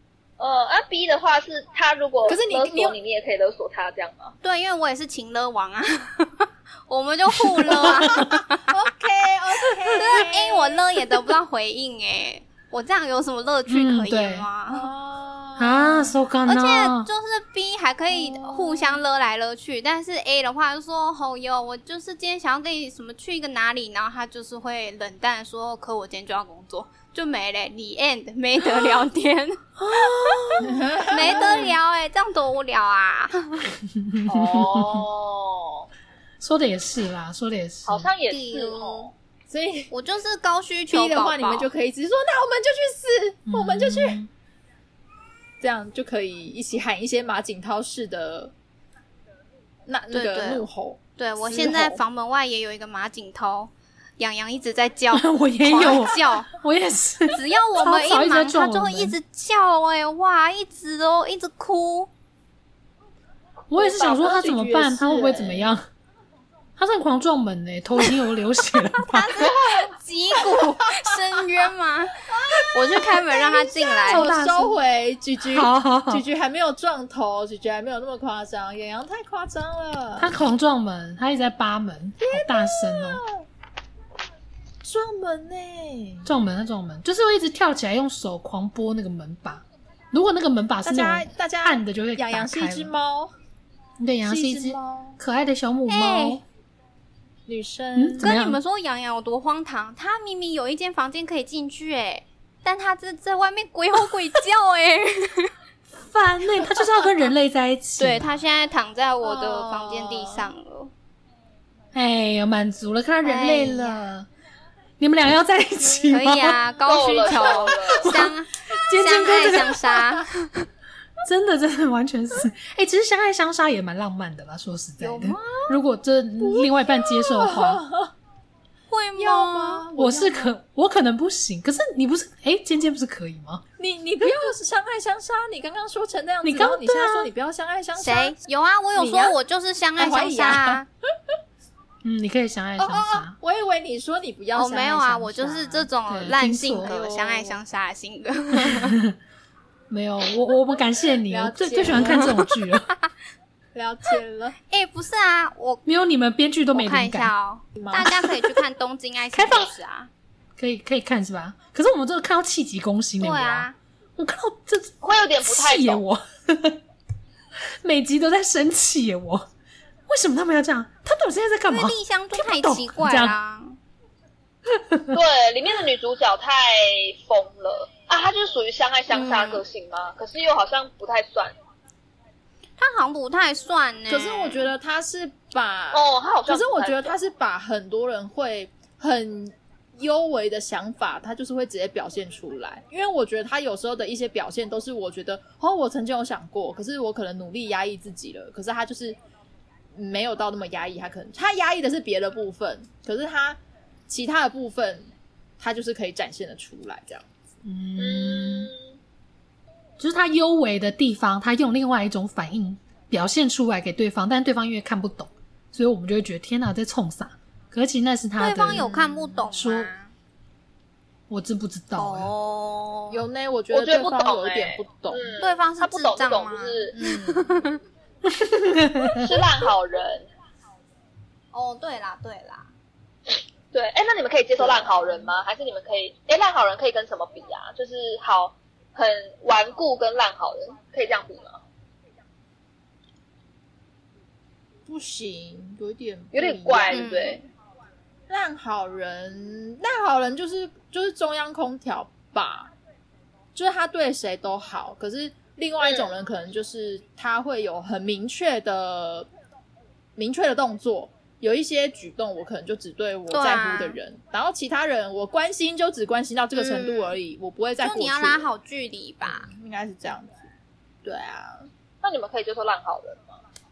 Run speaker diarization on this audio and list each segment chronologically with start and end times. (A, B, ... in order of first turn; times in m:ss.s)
0:00.4-0:04.3 A
0:02.3-0:02.9 B
0:04.4-0:08.7 C
0:07.6-0:08.4 D
0:07.7-0:10.8 B
0:09.9-0:14.9 C
0:13.7-0:14.5 D
0:14.7-0:16.2 B
0:15.6-0:17.1 D
0:16.5-0:33.7 C
0:18.1-0:19.0 B
0:29.8-0:30.8 D
0:30.6-0:31.7 B
0:33.9-0:35.0 D
0:34.3-0:35.9 A
0:36.4-0:38.1 D
0:37.8-0:39.1 A
0:38.3-0:39.1 C
0:39.5-0:39.9 B
0:39.9-0:41.7 C
0:40.9-0:44.2 B
0:43.5-0:44.3 D
0:45.6-0:48.5 B
0:49.8-0:52.0 B
0:50.1-0:56.5 C
0:55.1-0:59.1 D
0:57.3-1:02.1 C
1:03.7-1:05.9 D
1:03.8-1:05.7 B
1:06.8-1:09.5 D
1:09.1-1:12.2 C
1:09.5-1:09.9 B
1:10.4-1:10.7 B
1:12.3-1:20.3 B
1:12.7-1:14.3 C
1:14.0-1:14.8 D
1:15.4-1:16.2 D
1:20.2-1:23.2 D
1:22.2-1:23.4 B
1:24.8-1:26.3 B
1:26.2-1:32.9 D
1:30.8-1:33.3 B
1:34.0-1:36.4 D
1:34.2-1:35.2 B
1:35.9-1:36.4 C
1:37.5-1:38.3 B
1:37.9-1:38.6 D
1:38.2-1:45.5 C
1:45.9-1:48.4 D
1:48.0-1:50.9 C
1:49.2-1:50.5 B
1:51.9-1:54.3 D
1:53.2-1:54.0 C
1:55.0-1:56.6 D
1:56.1-2:00.7 C
1:56.8-1:58.1 A
1:57.9-1:59.9 D
2:01.2-2:07.8 D
2:05.0-2:05.8 C
2:06.4-2:08.1 B
2:08.9-2:09.8 C
2:09.2-2:10.5 B
2:09.9-2:13.6 D
2:13.8-2:18.4 B
2:16.4-2:17.3 D
2:18.0-2:20.8 C
2:19.0-2:19.4 B
2:20.0-2:20.8 B
2:22.0-2:23.4 D
2:22.8-2:25.9 B
2:24.5-2:29.0 C
2:26.1-2:26.9 D
2:26.8-2:27.6 B
2:28.5-2:29.1 D
2:29.9-2:32.9 D
2:31.3-2:32.4 B
2:33.7-2:34.6 B
2:34.7-2:35.8 C
2:35.8-2:37.3 D
2:36.7-2:40.1 C
2:37.7-2:38.6 B
2:39.3-2:39.7 D
2:40.6-2:46.8 D
2:43.2-2:43.8 C
2:45.0-2:46.0 A
2:47.6-2:49.5 D
2:50.1-2:53.4 D
2:51.7-2:53.8 C
2:54.7-2:55.2 D
2:55.1-3:01.5 A
2:59.1-2:59.6 C
3:02.8-3:04.7 C
3:04.1-3:19.2 B
3:05.9-3:07.1 A
3:19.9-3:27.3 B
3:27.6-3:28.7 D
3:28.0-3:28.9 A
3:30.0-3:39.9 D
3:38.4-3:40.1 C
3:38.8-3:39.1 B
3:41.3-3:42.3 D
3:41.9-3:43.2 C
3:43.1-3:45.4 B
3:43.7-3:47.0 A
3:45.4-3:47.8 C
3:46.9-3:47.7 B
3:48.2-3:49.3 D
3:49.1-3:50.3 A
3:51.5-3:52.7 C
3:53.7-4:01.6 A
3:54.6-3:55.3 B
4:04.8-4:07.3 B
4:06.3-4:07.4 A
4:06.9-4:07.4 C
4:08.3-4:12.7 B
4:13.5-4:19.3 B
4:15.8-4:16.1 A
4:20.2-4:28.5 B
4:23.3-4:24.0 C
4:26.6-4:27.1 C
4:27.8-4:29.5 C
4:29.2-4:30.5 B
4:31.0-4:31.7 B
4:32.0-4:33.4 A